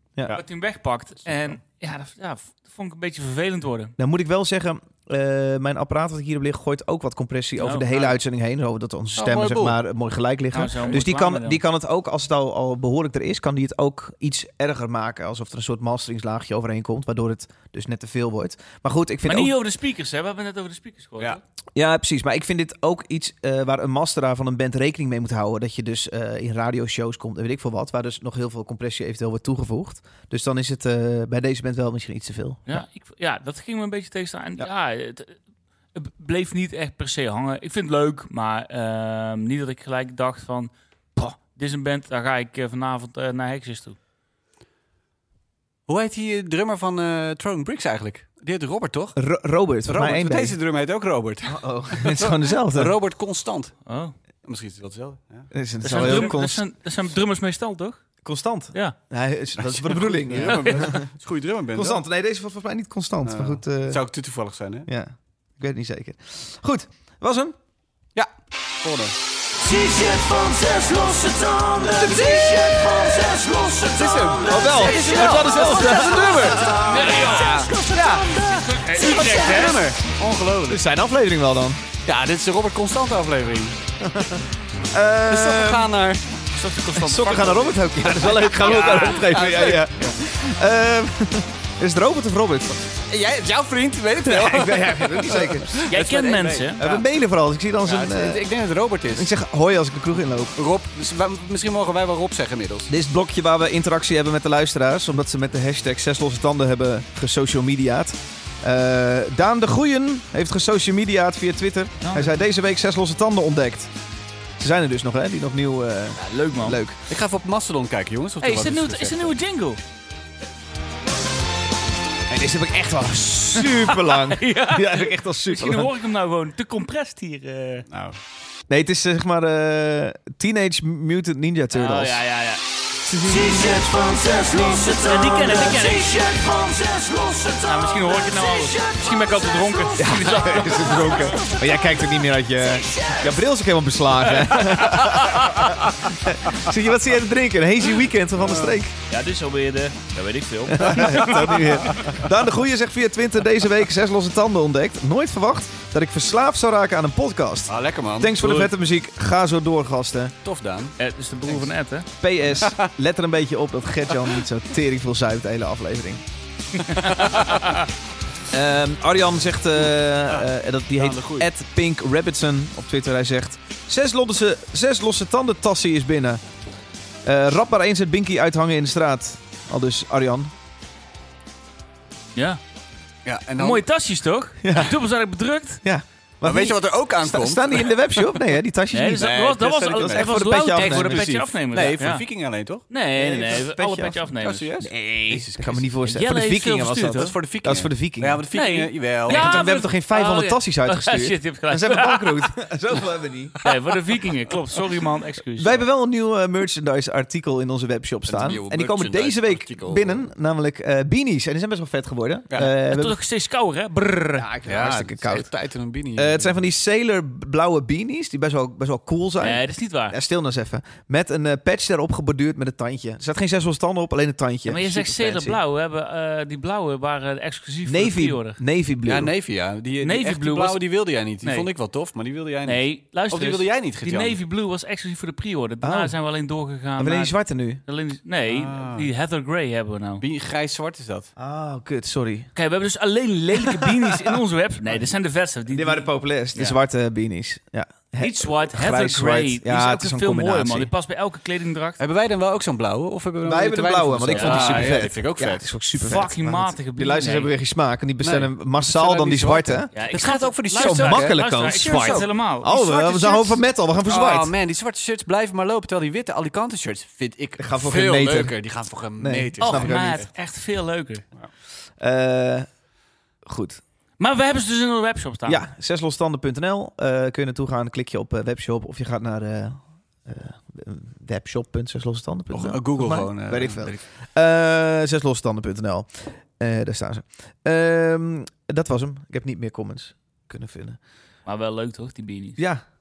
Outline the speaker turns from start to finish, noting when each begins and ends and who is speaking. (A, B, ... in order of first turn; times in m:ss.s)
0:00.3-0:04.0 A
0:04.0-0:19.6 B
0:07.6-0:08.2 A
0:09.2-0:09.8 C
0:09.2-0:09.6 A
0:10.5-0:11.6 A
0:19.2-0:21.4 A
0:21.8-0:32.8 B
0:32.7-0:35.4 A
0:35.9-0:44.0 A
0:45.9-0:49.2 C
0:49.2-0:50.6 B
0:49.9-0:53.8 C
0:51.5-0:52.9 B
0:53.9-0:54.2 A
0:54.4-0:56.3 C
0:55.5-0:56.6 B
0:55.8-0:58.0 A
0:58.2-1:01.1 B
0:59.6-1:02.0 C
1:00.3-1:00.9 A
1:01.7-1:04.0 B
1:03.2-1:04.9 C
1:04.9-1:07.6 B
1:08.8-1:09.2 C
1:09.6-1:19.7 D
1:11.9-1:12.6 B
1:12.0-1:12.4 C
1:13.8-1:20.8 C
1:14.4-1:17.7 B
1:16.8-1:17.6 A
1:18.5-1:19.8 A
1:20.7-1:21.8 B
1:22.0-1:23.8 C
1:24.0-1:25.9 B
1:25.3-1:26.2 C
1:26.6-1:29.3 A
1:27.0-1:32.8 B
1:28.0-1:29.9 C
1:33.1-1:37.1 C
1:34.2-1:35.9 B
1:35.9-1:36.8 A
1:36.8-1:38.4 B
1:37.8-1:39.3 C
1:39.1-1:40.6 B
1:40.6-1:42.9 C
1:42.9-1:53.9 B
1:52.0-1:52.4 A
1:54.6-1:57.0 B
1:56.2-1:56.8 A
1:57.1-1:59.4 C
1:58.4-1:59.8 A
2:02.3-2:05.9 B
2:03.6-2:07.9 A
2:07.9-2:08.2 C
2:08.7-2:12.2 B
2:11.7-2:12.6 A
2:13.1-2:13.5 B
2:13.2-2:23.4 D
2:14.8-2:16.2 A
2:17.6-2:21.5 A
2:20.0-2:28.9 B
2:24.3-2:25.8 A
2:28.4-2:28.8 C
2:29.1-2:31.9 A
2:30.7-2:40.3 B
2:37.7-2:38.5 C
2:40.4-2:41.0 C
2:41.0-2:42.1 A
2:42.2-2:46.2 B
2:42.6-2:42.9 C
2:46.9-2:47.8 A
2:47.0-2:47.6 C
2:48.5-2:56.4 B
2:50.3-2:51.5 C
2:57.2-3:00.5 B
3:03.2-3:03.8 C
3:03.6-3:05.8 A
3:04.6-3:05.0 B
3:05.8-3:09.3 B
3:06.4-3:08.4 C
3:08.9-3:12.2 A
3:09.1-3:12.9 C
3:10.0-3:11.3 B
3:12.9-3:14.7 A
3:13.2-3:14.3 B
3:14.4-3:15.9 C
3:14.8-3:18.4 B
3:16.0-3:17.3 A
3:17.1-3:19.7 C
3:18.5-3:22.5 A
3:19.3-3:23.6 B
3:23.6-3:25.8 A
3:25.6-3:33.2 B
3:28.3-3:30.2 C
3:32.8-3:34.5 A
3:34.4-3:35.5 B
3:34.7-3:36.6 C
3:36.2-3:45.6 B
3:39.4-3:40.2 A
3:44.7-3:48.6 A
3:47.9-3:49.3 B
3:49.1-3:54.4 C
3:50.0-3:50.8 A
3:51.4-3:51.7 A
3:52.6-4:00.2 A
3:55.8-3:56.2 B
3:57.0-3:57.8 B
3:58.5-3:59.1 C
4:00.2-4:01.3 C
4:01.4-4:02.5 B
4:02.6-4:06.8 A
4:03.7-4:04.4 B
4:05.7-4:10.9 B
4:08.2-4:12.0 A
4:12.0-4:15.6 C
4:13.4-4:19.9 B
4:14.3-4:15.0 A
4:16.0-4:17.5 A
4:18.2-4:22.3 C
4:19.9-4:23.6 A
4:20.8-4:24.5 B
4:24.1-4:30.3 C
4:27.6-4:28.6 B
4:29.2-4:30.2 B
4:29.6-4:31.2 A
4:32.0-4:32.7 B
4:33.4-4:33.8 B
4:34.2-4:35.6 A
4:35.5-4:51.0 B
4:42.5-4:44.0 C
4:51.5-4:52.6 A
4:52.6-4:52.8 B